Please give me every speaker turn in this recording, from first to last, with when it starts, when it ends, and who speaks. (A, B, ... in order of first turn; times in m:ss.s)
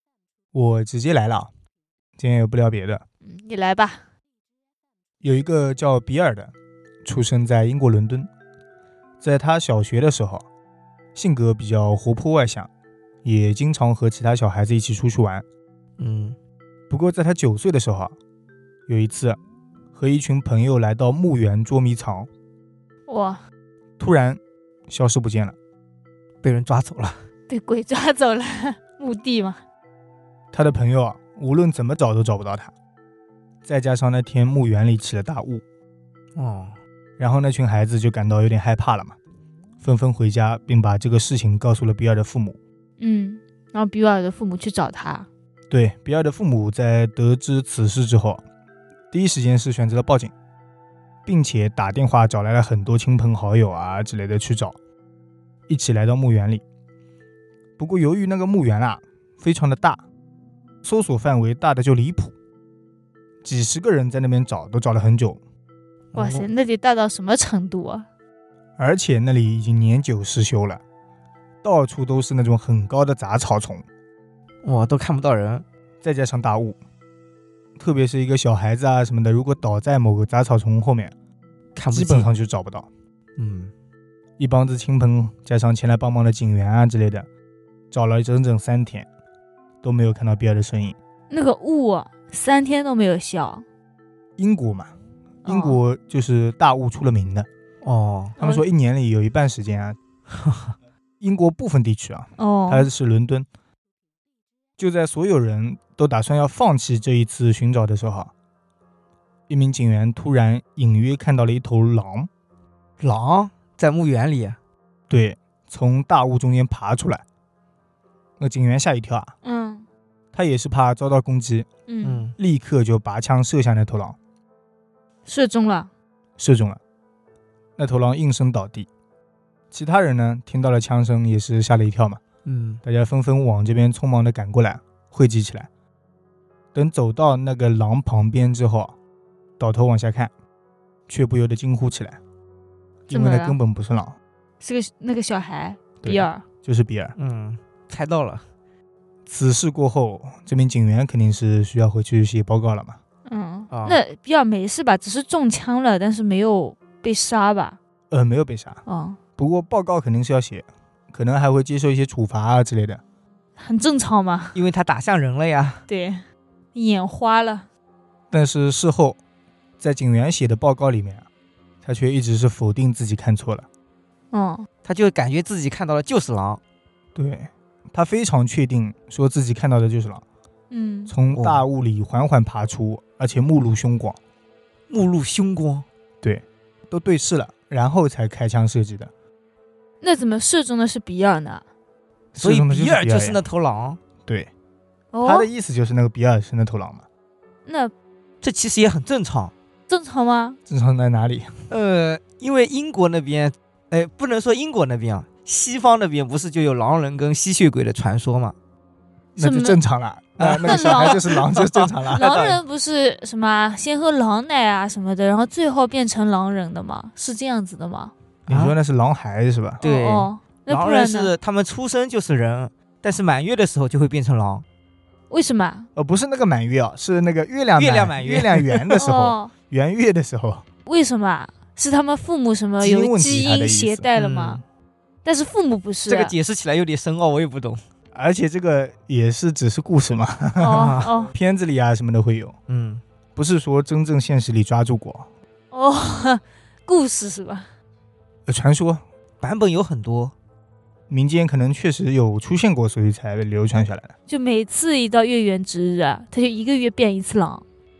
0:00.5-0:01.5 A
0:02.2-0:03.0 A
0:03.2-0:04.0 B
0:05.2-0:06.5 A
0:07.0-0:08.3 A
0:09.2-0:10.4 A
0:11.2-0:12.7 A
0:13.2-0:15.4 A
0:16.0-0:16.4 C
0:16.9-0:18.2 A
0:18.9-0:19.4 A
0:20.0-0:22.3 A
0:23.1-0:23.4 B
0:24.0-0:25.6 A
0:26.4-0:27.2 C
0:27.5-0:29.6 B
0:30.5-0:32.7 A
0:33.6-0:35.6 A
0:36.4-0:36.8 C
0:37.2-0:39.2 A
0:39.8-0:42.6 A
0:43.0-0:45.3 B
0:45.7-0:48.4 A
0:49.1-0:50.3 A
0:51.3-0:54.8 A
0:55.7-0:56.6 A
0:57.8-1:00.0 A
1:00.8-1:02.3 A
1:03.4-1:05.4 A
1:06.1-1:06.5 C
1:06.2-1:08.1 B
1:08.8-1:10.8 A
1:11.6-1:13.8 A
1:14.6-1:15.6 C
1:16.0-1:16.8 A
1:17.8-1:21.1 A
1:21.8-1:22.3 C
1:21.9-1:22.9 A
1:23.4-1:23.7 C
1:24.4-1:27.3 A
1:27.9-1:29.1 A
1:29.8-1:31.0 A
1:31.3-1:33.6 B
1:34.4-1:34.9 A
1:35.4-1:35.8 B
1:35.4-1:37.5 A
1:37.8-1:38.4 C
1:38.4-1:40.0 A
1:40.4-1:40.7 C
1:41.2-1:43.5 A
1:42.4-1:42.9 B
1:44.8-1:48.3 A
1:49.5-1:52.3 A
1:53.0-1:54.6 C
1:55.1-1:57.2 A
1:58.4-1:59.3 A
1:59.4-1:59.8 B
2:00.3-2:01.7 A
2:01.9-2:02.3 B
2:02.0-2:02.3 C
2:02.4-2:04.2 A
2:05.3-2:05.9 B
2:06.4-2:06.8 A
2:07.8-2:08.9 A
2:09.7-2:12.2 A
2:12.4-2:12.8 C
2:12.8-2:15.7 A
2:16.7-2:19.0 A
2:19.6-2:20.3 A
2:21.1-2:22.2 A
2:23.1-2:24.2 A
2:23.1-2:23.6 B
2:24.6-2:26.4 B
2:26.0-2:27.2 A
2:27.2-2:28.4 C
2:29.3-2:33.0 A
2:33.3-2:37.8 B
2:33.7-2:34.0 C
2:38.1-2:38.8 A
2:38.9-2:39.2 B
2:39.4-2:43.0 A
2:43.6-2:44.6 B
2:44.5-2:45.8 C
2:45.9-2:46.2 B
2:46.7-2:47.7 B
2:48.3-2:49.2 A
2:49.8-2:51.3 A
2:51.8-2:53.7 A
2:54.3-2:54.7 B
2:54.8-2:56.6 C
2:57.2-3:00.2 A
3:00.7-3:01.1 B
3:01.1-3:04.2 A
3:01.3-3:01.6 C
3:04.9-3:05.8 C
3:06.2-3:09.1 A
3:10.0-3:11.6 B
3:12.3-3:13.4 A
3:12.4-3:14.0 C
3:15.1-3:15.5 B
3:15.2-3:17.0 A
3:17.7-3:17.9 B
3:18.4-3:19.5 C
3:19.9-3:20.6 B
3:20.7-3:21.6 A
3:21.7-3:28.6 C
3:29.4-3:32.6 A
3:29.4-3:29.8 B
3:30.4-3:32.5 C
3:30.6-3:31.2 B
3:32.1-3:38.1 B
3:38.5-3:39.8 A
3:38.5-3:38.7 C
3:39.8-3:44.6 C
3:39.8-3:41.3 B
3:45.3-3:45.9 B
3:46.0-3:50.6 A
3:47.8-3:49.0 C
3:49.0-3:49.5 B
3:50.8-3:54.6 B
3:52.8-3:54.1 A
3:54.2-3:54.6 C
3:55.2-3:56.3 B
3:56.1-3:57.8 C
3:58.1-4:02.6 A
4:00.6-4:01.3 B
4:00.7-4:01.1 C
4:02.7-4:03.0 C
4:03.4-4:05.3 A
4:05.7-4:07.7 B
4:08.5-4:09.0 A
4:09.4-4:10.3 C
4:11.1-4:14.1 A
4:14.3-4:17.6 B